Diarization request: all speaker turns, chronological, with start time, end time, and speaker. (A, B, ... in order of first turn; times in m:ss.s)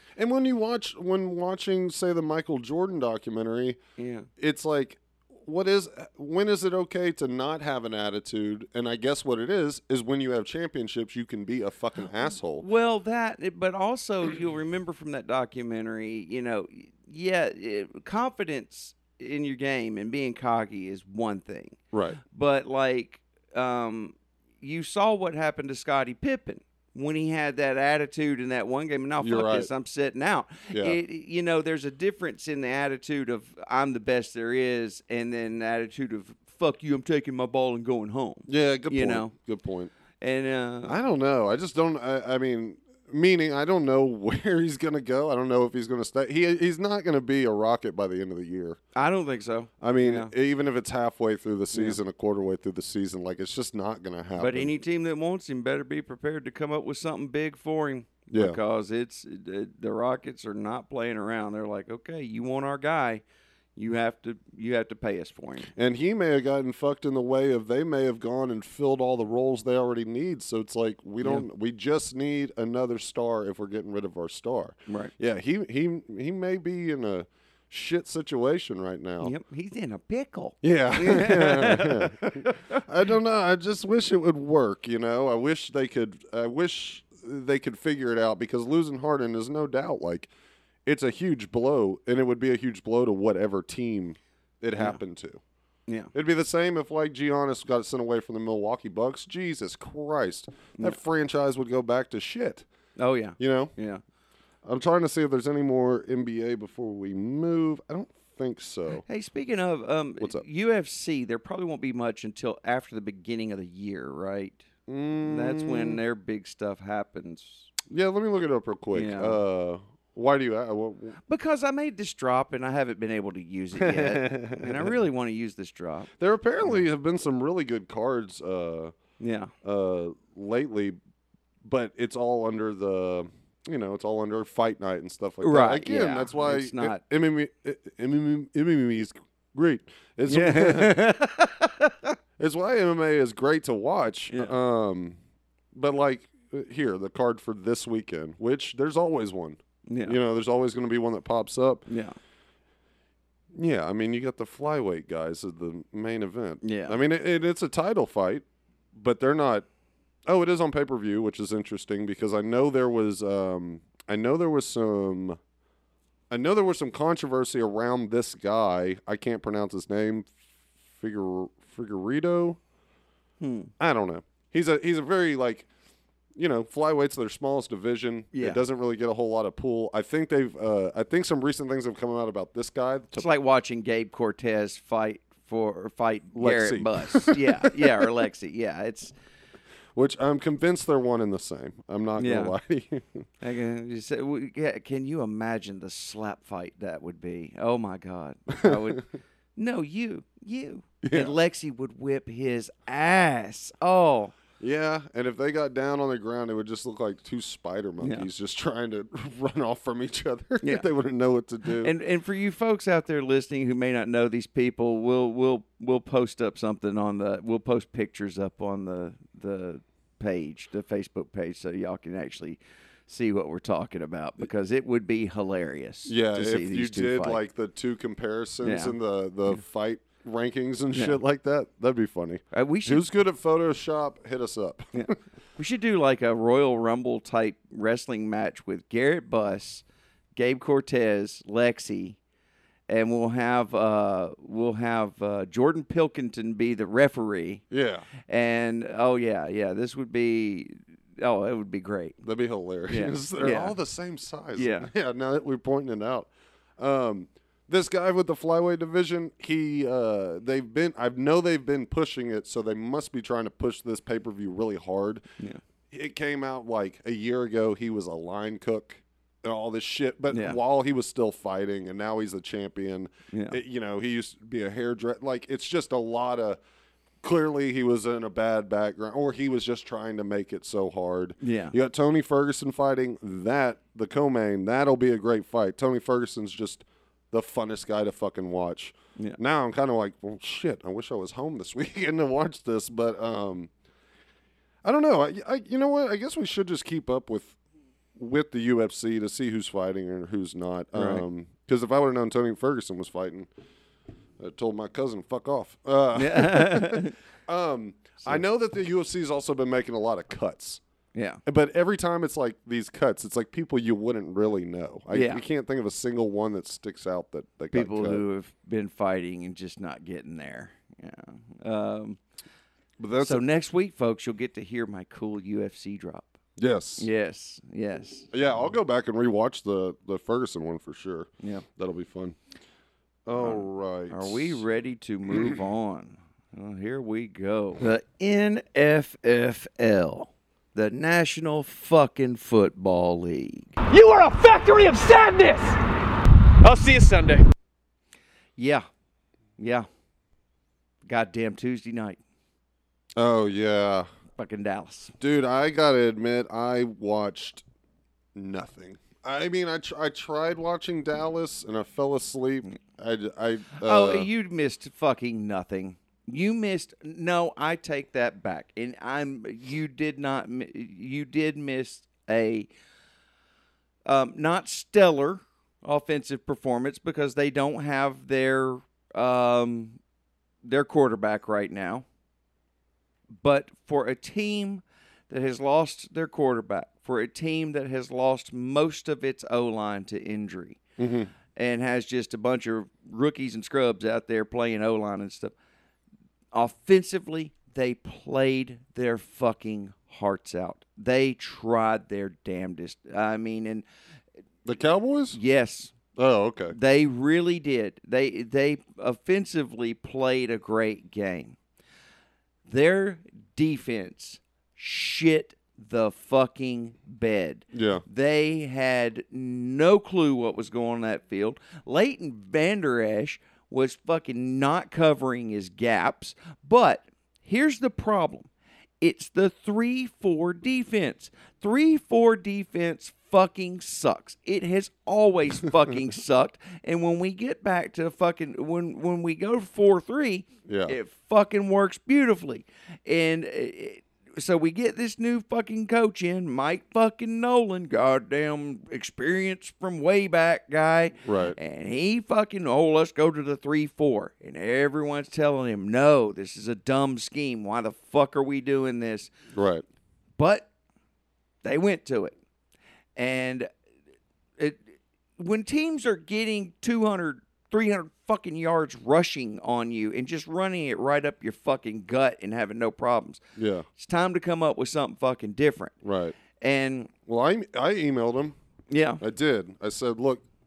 0:00.2-0:03.8 A
0:04.0-0:04.3 B
0:04.4-0:12.7 A
0:12.6-0:39.3 B
0:21.9-0:22.2 A
0:29.2-0:29.7 A
0:30.7-0:31.0 A
0:38.5-0:39.9 A
0:40.2-0:41.0 B
0:40.8-0:48.8 A
0:49.0-0:50.3 B
0:49.8-0:54.8 A
0:51.7-0:52.0 B
0:54.4-1:03.2 B
0:58.3-0:58.6 A
1:03.8-1:05.7 B
1:05.8-1:19.3 A
1:14.9-1:15.1 B
1:19.2-1:22.8 B
1:20.6-1:30.3 A
1:30.9-1:35.4 A
1:36.1-1:42.7 A
1:43.0-1:44.0 B
1:43.4-1:43.7 A
1:44.6-1:49.0 A
1:49.1-1:54.7 B
1:50.2-1:50.4 A
1:54.9-1:56.0 A
1:55.2-1:57.7 B
1:57.9-2:01.2 A
1:58.9-1:59.4 B
2:01.3-2:06.1 B
2:03.8-2:04.9 A
2:06.2-2:09.0 A
2:09.2-2:09.5 B
2:09.6-2:11.0 A
2:11.6-2:21.0 A
2:15.4-2:17.0 B
2:20.3-2:22.1 B
2:22.4-2:25.2 A
2:24.3-2:24.6 B
2:25.7-2:31.9 A
2:29.9-2:30.2 B
2:31.9-2:32.2 B
2:33.5-2:39.7 A
2:36.6-2:37.0 B
2:40.3-2:45.4 A
2:46.3-2:50.4 A
2:51.0-2:52.6 A
2:53.4-2:53.7 B
2:53.8-2:55.7 A
2:56.4-3:03.3 A
2:58.3-2:58.6 B
3:03.1-3:09.1 B
3:06.3-3:08.1 A
3:09.9-3:13.3 A
3:12.2-3:12.6 B
3:13.4-3:24.3 B
3:18.6-3:19.0 A
3:21.0-3:21.4 A
3:24.6-3:31.9 A
3:28.0-3:28.3 B
3:31.8-3:47.4 B
3:46.1-3:55.1 A
3:48.6-3:49.0 B
3:50.9-3:51.2 B
3:52.5-3:53.0 B
3:54.9-4:02.2 B
4:02.9-4:07.6 B
4:07.7-4:08.1 A
4:08.2-4:12.2 B
4:12.2-4:25.2 A
4:12.9-4:13.8 B
4:14.6-4:14.9 B
4:25.9-4:36.6 A
4:30.3-4:30.6 B
4:33.3-4:33.6 B
4:37.2-4:53.7 A
4:41.4-4:41.7 B
4:54.8-4:57.6 A
4:58.2-5:03.5 A
5:00.9-5:01.2 B
5:04.4-5:10.8 A
5:06.2-5:07.2 B
5:11.1-5:11.4 B
5:11.5-5:18.2 A
5:15.1-5:15.4 B
5:17.7-5:22.2 B
5:23.0-5:23.4 A
5:23.2-5:26.4 B
5:26.6-5:27.1 A
5:27.0-5:28.3 B
5:28.3-5:32.4 A
5:33.3-5:34.6 A
5:33.4-5:43.7 B
5:35.3-5:35.6 A
5:43.9-5:45.8 C
5:46.6-5:47.5 C
5:48.6-5:48.9 B
5:49.6-5:49.9 B
5:51.1-5:52.2 B
5:53.2-5:54.1 A
5:54.4-5:55.1 B
5:55.2-5:57.6 A
5:58.4-6:04.3 A
6:03.8-6:12.7 B
6:14.1-6:20.0 B
6:20.6-6:22.0 B
6:23.4-6:30.8 B
6:31.0-6:31.3 A
6:31.5-6:35.6 B
6:36.5-6:43.8 B
6:44.6-6:45.4 A
6:45.3-6:46.0 B
6:46.2-6:46.8 A
6:46.7-6:51.6 B
6:52.7-7:08.5 B
6:57.7-6:58.0 A
7:09.0-7:39.3 B
7:20.7-7:21.0 A
7:31.2-7:31.6 A
7:39.5-7:39.8 A
7:40.4-7:40.7 B
7:41.6-7:42.4 B
7:43.2-7:43.7 B
7:44.6-7:53.4 B
7:53.6-7:53.9 A
7:54.0-7:56.0 B
7:56.0-7:56.4 A
7:56.6-7:57.1 B
7:57.3-7:58.6 A
7:58.9-7:59.2 B
7:59.2-8:00.4 A